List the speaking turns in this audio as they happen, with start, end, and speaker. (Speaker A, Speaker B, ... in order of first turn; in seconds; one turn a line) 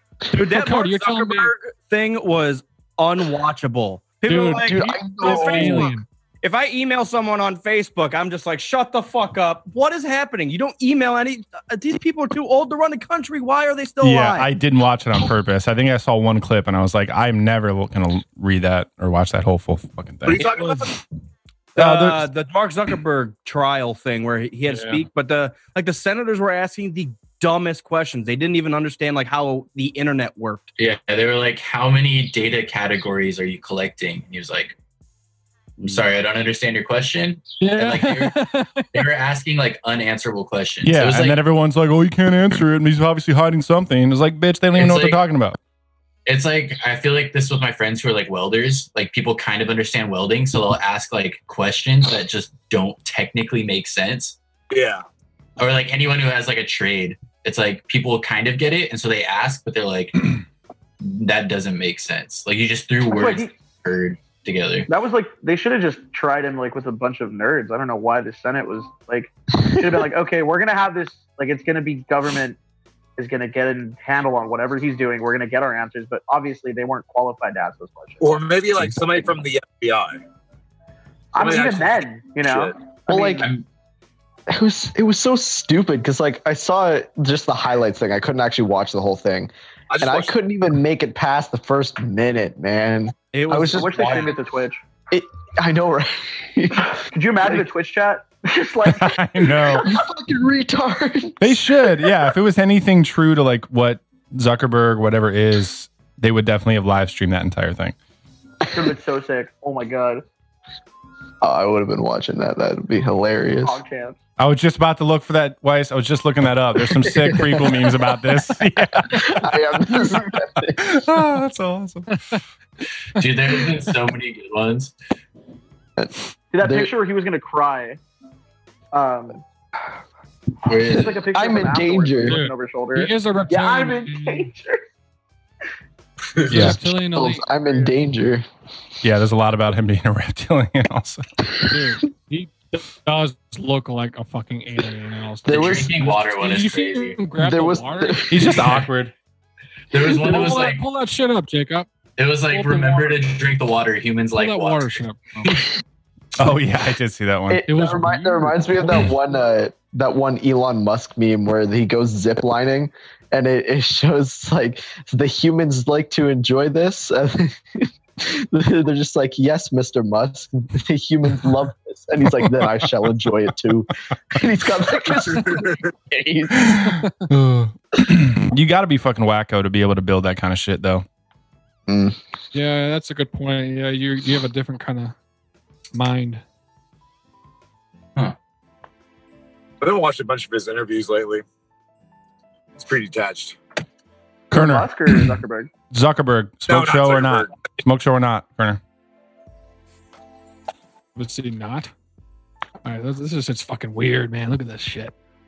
Speaker A: 0.3-5.9
Speaker B: 0.5-1.5
Speaker B: 4.2-6.0
Speaker C: 4.6-6.0
Speaker A: 6.4-14.5
Speaker D: 14.0-20.4
Speaker E: 20.2-21.0
Speaker A: 21.7-30.7
Speaker D: 21.8-22.3
Speaker B: 24.7-25.0
Speaker F: 30.8-34.8
Speaker F: 35.8-41.4
Speaker B: 37.6-39.1
Speaker D: 40.8-45.5
Speaker F: 44.7-45.2
Speaker F: 46.2-54.4
Speaker E: 54.7-55.0
Speaker F: 55.6-60.4
Speaker F: 61.0-64.9
Speaker G: 63.1-63.5
Speaker G: 64.9-72.6
Speaker G: 73.2-78.4
Speaker E: 78.2-80.2
Speaker G: 81.3-83.5
Speaker E: 81.3-82.7
Speaker C: 83.1-83.5
Speaker F: 83.4-83.6
Speaker C: 84.5-94.1
Speaker E: 89.9-90.3
Speaker A: 93.3-94.3
Speaker G: 93.5-94.8
Speaker C: 95.1-97.0
Speaker G: 96.9-99.6
Speaker D: 98.8-99.9
Speaker C: 99.8-102.1
Speaker D: 101.4-107.9
Speaker G: 108.7-110.2
Speaker C: 111.4-113.8
Speaker G: 113.6-114.2
Speaker D: 114.4-122.1
Speaker C: 116.8-118.0
Speaker C: 119.0-121.0
Speaker B: 122.1-122.4
Speaker F: 123.1-124.9
Speaker C: 126.0-126.9
Speaker G: 126.5-128.0
Speaker G: 128.9-129.4
Speaker F: 130.7-131.1
Speaker C: 130.9-132.4
Speaker G: 130.9-134.8
Speaker B: 132.2-134.5
Speaker B: 136.4-138.0
Speaker D: 136.5-136.8
Speaker C: 136.6-138.4
Speaker D: 139.0-141.2
Speaker B: 141.6-148.8
Speaker C: 145.4-145.9
Speaker F: 145.5-147.2
Speaker C: 147.4-148.6
Speaker D: 148.3-149.1
Speaker F: 149.9-150.8
Speaker B: 150.0-151.9
Speaker F: 152.2-155.0
Speaker B: 152.5-153.2
Speaker B: 154.3-155.6
Speaker D: 156.3-157.6
Speaker C: 157.5-177.0
Speaker B: 157.7-159.1
Speaker D: 172.2-173.1
Speaker E: 175.2-175.9
Speaker D: 176.6-181.0
Speaker B: 176.8-177.2
Speaker C: 181.9-182.2
Speaker B: 182.5-185.1
Speaker B: 185.9-186.4
Speaker E: 189.8-191.4
Speaker E: 192.8-193.6
Speaker D: 194.5-195.3
Speaker G: 194.5-195.7
Speaker D: 195.9-198.8
Speaker E: 196.7-197.5
Speaker B: 201.2-201.9
Speaker B: 202.8-205.1